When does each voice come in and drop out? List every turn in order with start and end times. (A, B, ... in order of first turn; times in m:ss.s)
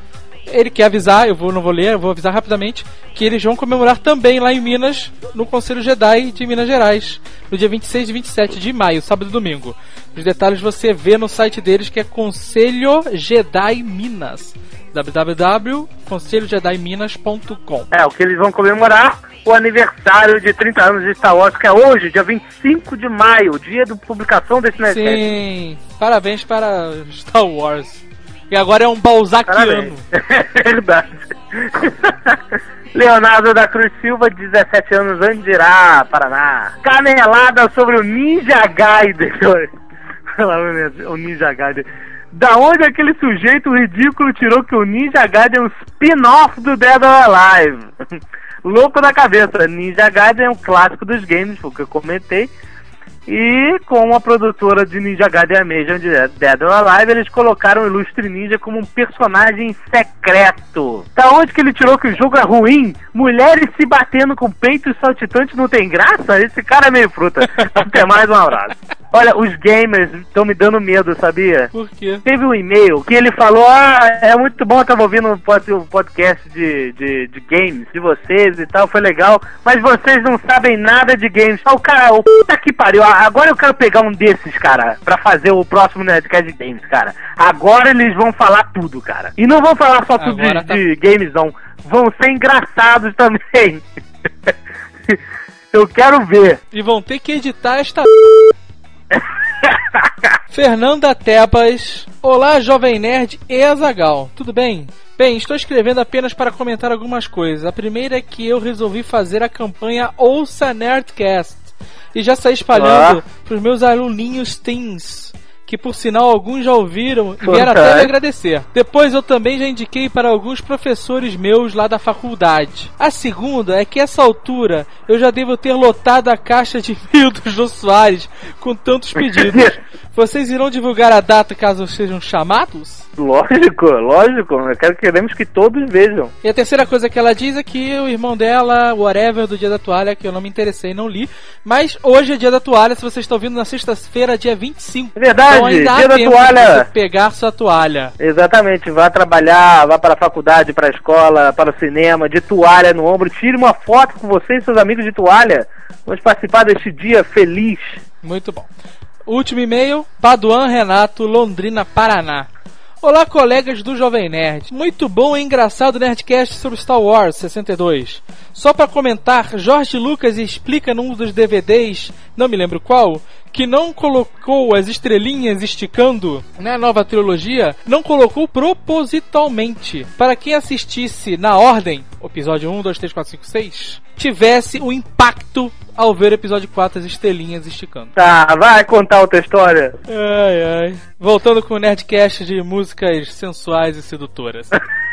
0:00.5-0:17.9 A
0:17.9-0:25.4 B
0:24.9-0:28.0 A
0:28.5-0:30.0 A
0:29.5-0:32.4 B
0:32.9-0:39.7 B
0:40.4-0:47.9 B
0:48.6-0:52.5 B
0:53.3-1:11.7 B
1:11.7-1:12.2 A
1:12.2-1:33.8 B
1:30.2-1:30.8 A
1:35.7-1:36.6 B
1:36.7-1:38.1 A
1:39.1-1:40.1 B
1:40.5-2:13.0 A
1:52.7-1:53.2 B
1:57.4-1:58.1 B
2:09.2-2:09.8 B
2:13.2-2:16.3 B
2:16.4-2:28.1 A
2:25.2-2:26.9 B
2:28.2-2:38.0 B
2:38.2-2:38.7 A
2:39.2-2:42.5 A
2:43.0-3:08.1 A
3:08.2-3:10.0 B
3:10.1-3:14.7 A